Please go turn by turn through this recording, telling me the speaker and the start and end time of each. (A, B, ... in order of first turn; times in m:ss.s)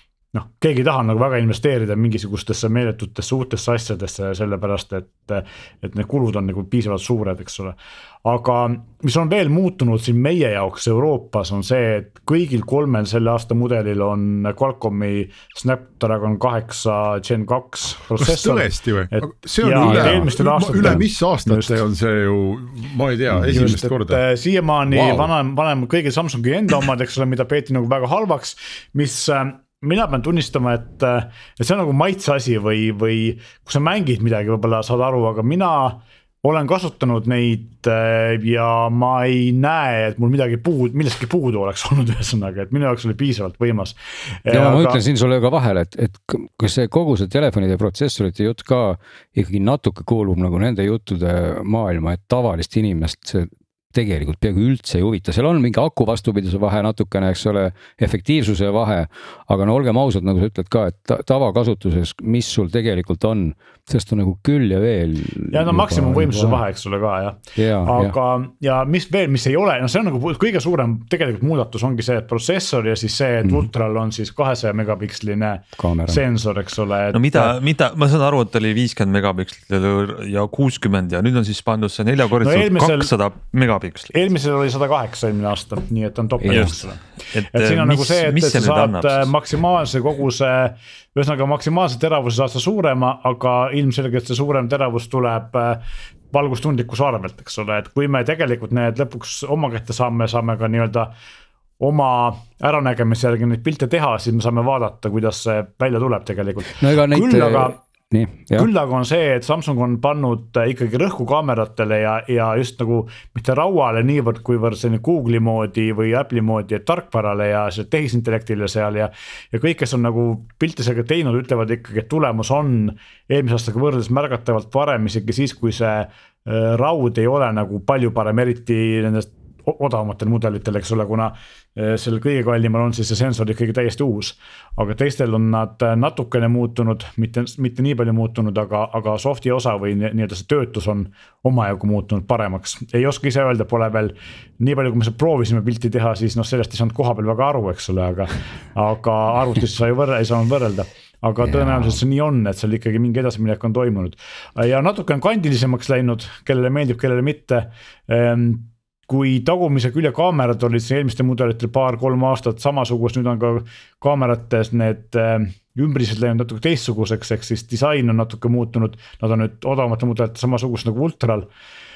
0:00.3-0:21.7 A
0:18.2-0:24.2 B
0:19.8-0:20.3 C
0:23.4-0:45.0 A
0:24.9-0:25.3 B
0:44.5-1:06.6 C
1:05.5-1:17.5 A
1:07.6-1:08.1 C
1:15.8-1:16.2 C
1:17.1-1:24.1 D
1:22.4-1:23.1 A
1:24.1-1:27.0 A
1:26.4-1:26.7 C
1:26.5-1:29.3 D
1:27.5-1:41.1 A
1:41.8-1:47.8 A
1:46.8-1:48.7 C
1:48.5-2:51.5 A
2:31.5-2:32.0 C